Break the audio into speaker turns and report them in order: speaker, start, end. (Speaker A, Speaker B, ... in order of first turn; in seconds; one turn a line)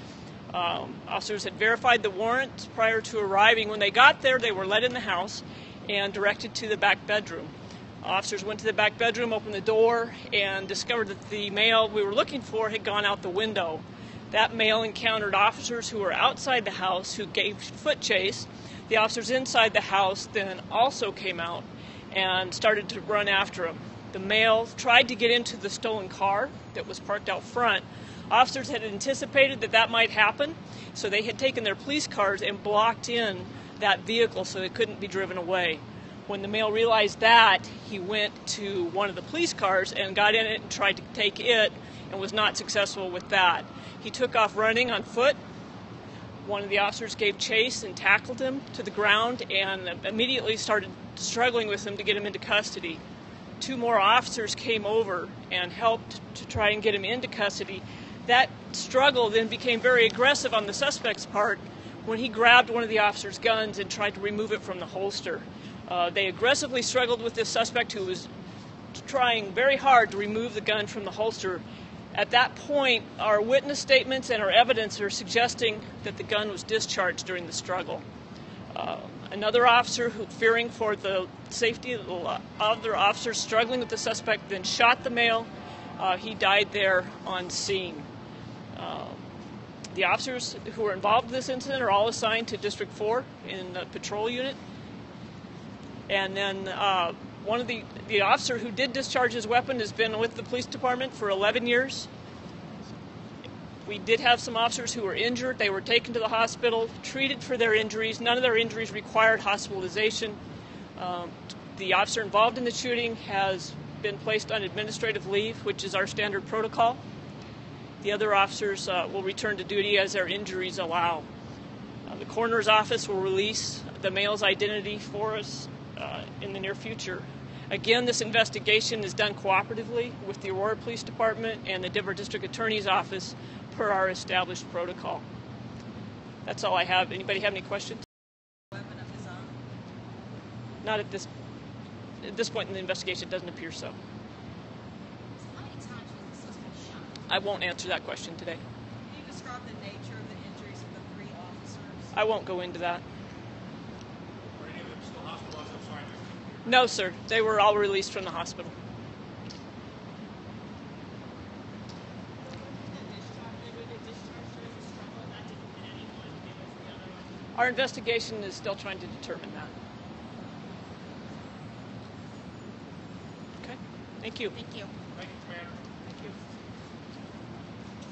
Speaker A: 0.5-45.4
Speaker A: 46.4-53.0
Speaker A: 53.6-68.3
Speaker A: 68.9-71.6
Speaker A: 72.1-78.0
Speaker A: 78.7-85.5
Speaker A: 86.0-88.1
Speaker A: 88.8-89.2
Speaker A: 89.9-94.6
Speaker A: 96.1-102.1
Speaker A: 103.8-110.4
Speaker A: 111.0-117.0
Speaker A: 118.0-121.3
Speaker A: 122.1-135.2
Speaker A: 136.4-138.1
Speaker B: 138.7-139.5
Speaker A: 140.8-141.3
Speaker A: 142.2-144.0
Speaker C: 145.4-147.1
Speaker A: 147.3-148.6
Speaker B: 149.1-152.1
Speaker A: 152.1-153.0
Speaker D: 154.6-156.6
Speaker A: 156.7-158.7
Speaker B: 162.6-167.3
Speaker A: 167.6-169.7
Speaker A: 173.6-174.5
Speaker C: 174.5-174.9
Speaker D: 175.1-175.9